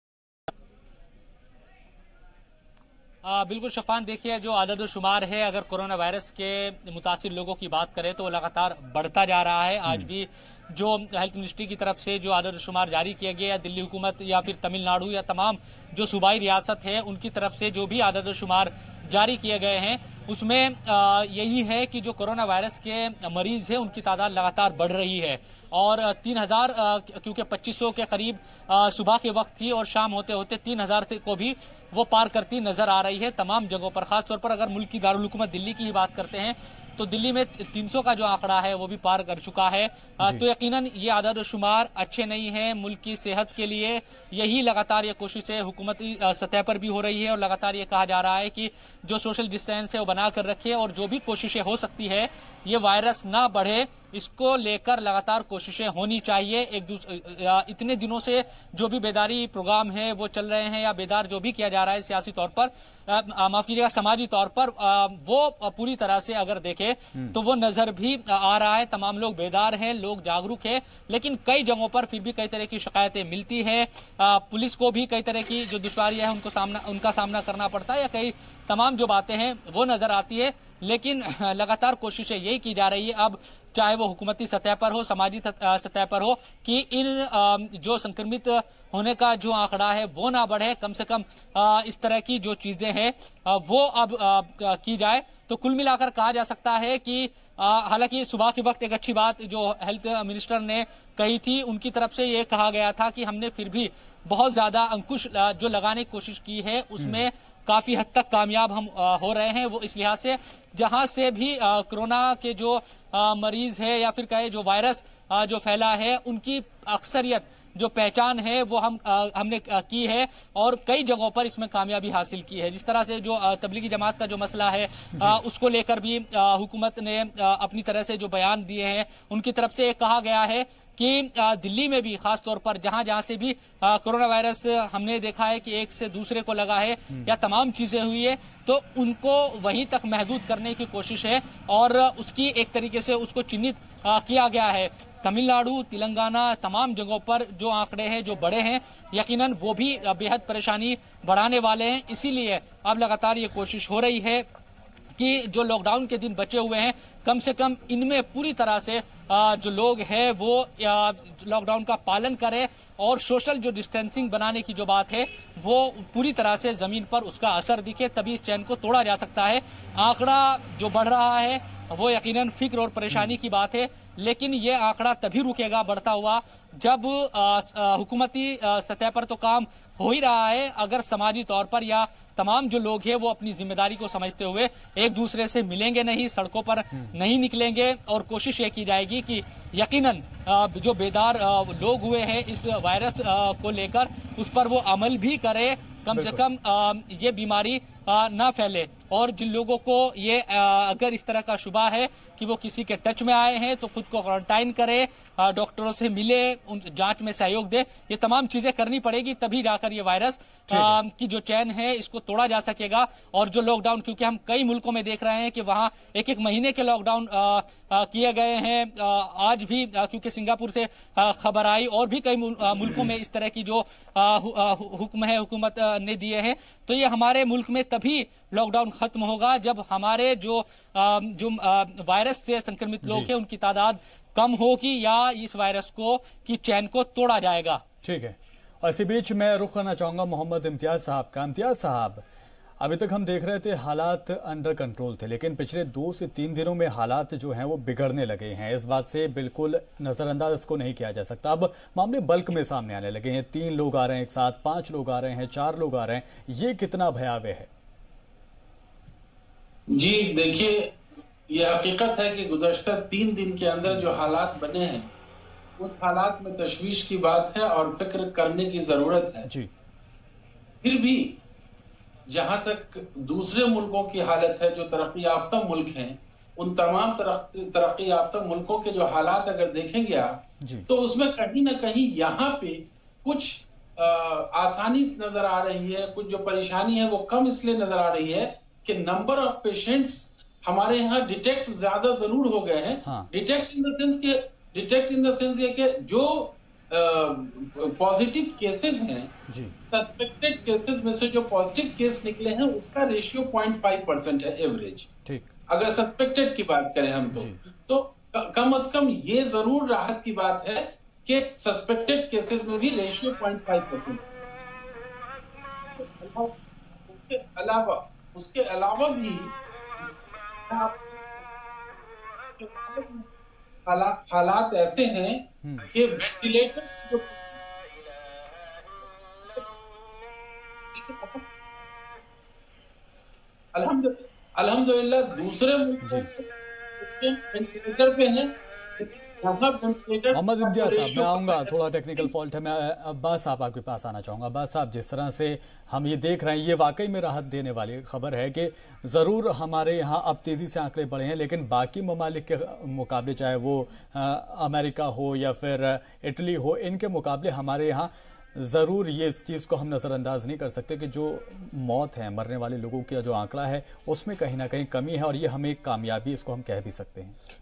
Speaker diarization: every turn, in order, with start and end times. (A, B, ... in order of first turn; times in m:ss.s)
0:03.2-2:34.5 A
1:47.0-1:47.2 B
2:35.2-3:57.8 A
2:53.1-2:53.4 B
3:16.1-3:16.4 B
3:30.7-3:31.0 B
3:53.0-3:53.3 B
3:58.0-4:02.2 B
4:02.8-4:17.7 B
4:19.9-4:25.1 C
4:25.8-4:29.5 C
4:29.5-4:29.7 B
4:30.8-4:31.4 C
4:32.3-4:59.4 C
4:40.6-4:40.9 B
4:53.0-4:53.3 B
4:59.5-4:59.8 B
4:59.9-5:05.1 C
5:05.2-5:05.5 B
5:05.7-5:14.2 C
5:07.3-5:07.6 B
5:15.8-5:19.5 C
5:20.7-5:21.2 C
5:22.6-5:23.3 C
5:23.9-5:27.5 C
5:25.6-5:25.9 B
5:30.9-5:31.4 C
5:33.7-5:42.3 C
5:36.0-5:36.3 B
5:40.3-6:07.4 B